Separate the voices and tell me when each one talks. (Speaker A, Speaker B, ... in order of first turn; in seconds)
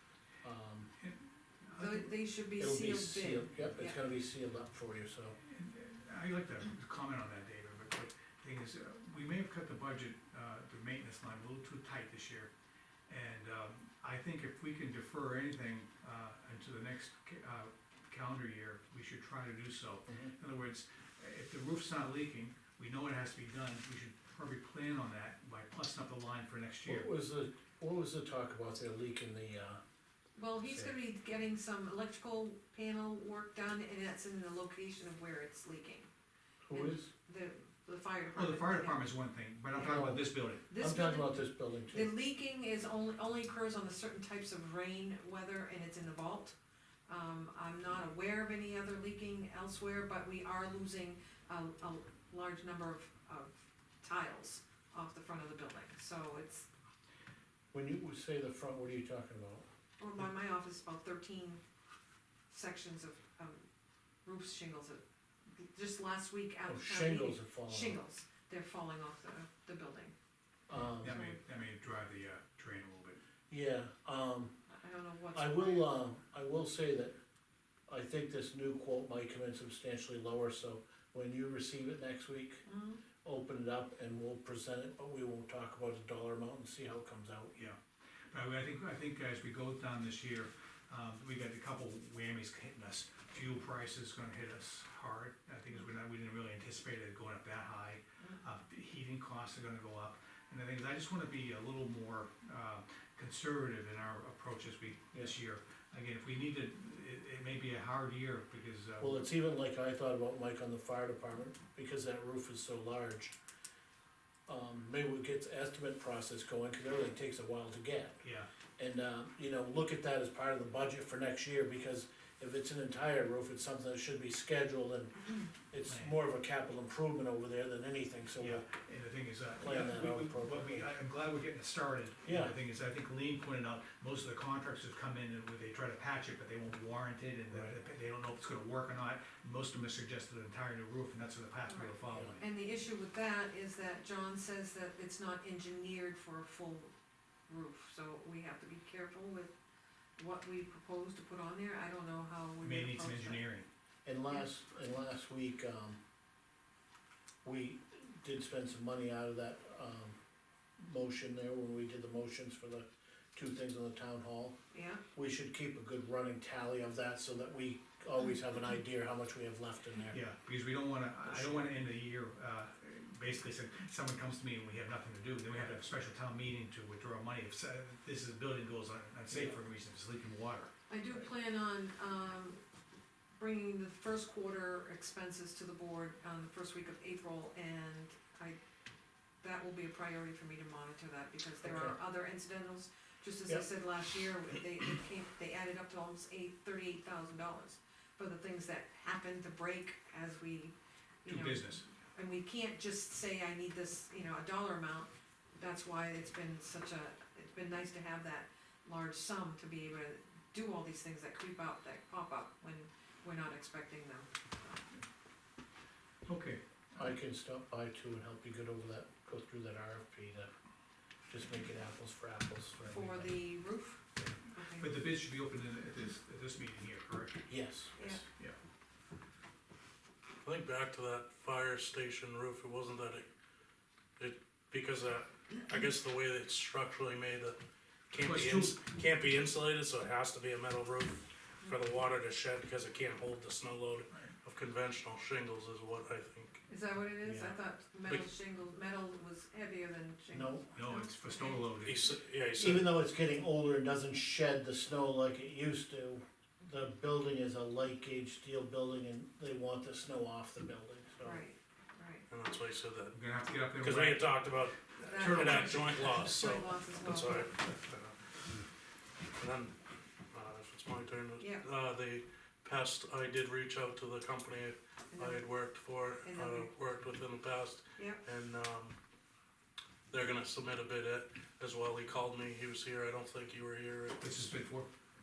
Speaker A: 0.4-0.9, 2.6-5.4, 20.1-20.3, 26.9-29.8, 30.6-30.9, 36.6-37.1, 39.8-42.1, 57.7-59.7, 66.7-68.0, 70.7-71.2, 73.5-74.6, 75.3-77.2, 77.9-82.7, 83.2-87.5, 109.0-113.3, 114.5-118.2, 118.8-128.7, 129.6-130.9, 132.3-132.5, 142.1-142.4, 154.1-156.0, 157.4-160.2, 160.8-164.6, 165.1-170.2, 171.2-171.7, 179.3-179.6, 191.6-191.9, 217.0-220.5, 221.3-223.4, 227.5-228.0, 250.3-250.7, 252.6-261.4
Speaker B: 1.0-2.1, 5.4-12.5, 13.1-27.1, 38.3-40.7, 71.0-73.2, 88.3-109.3, 118.2-118.5, 125.8-126.2, 128.4-142.4, 152.6-153.7, 170.1-180.7, 201.3-201.9, 216.2-217.2, 224.2-227.5, 228.3-228.6, 238.2-238.8, 250.7-252.1, 263.1-264.4, 265.2-265.7, 284.2-284.9
Speaker C: 1.8-4.0, 30.4-36.1, 36.7-39.0, 40.7-41.4, 41.9-46.5, 47.1-56.7, 60.0-61.6, 62.5-63.6, 64.2-65.0, 65.5-70.1, 71.0-71.4, 74.7-75.9, 82.7-83.0, 141.7-146.9, 147.5-149.5, 150.2-153.4, 164.7-165.0, 180.9-182.6, 183.3-188.6, 189.4-214.9, 222.9-224.9, 228.0-228.2, 246.7-251.7, 261.2-262.2, 265.0-267.6, 271.4-271.6, 275.1-275.5, 276.2-276.7, 278.0-278.2
Speaker D: 230.4-233.3, 234.2-237.6, 238.1-246.6, 251.8-252.9, 262.3-263.2, 263.8-268.6, 269.4-279.0, 280.1-284.6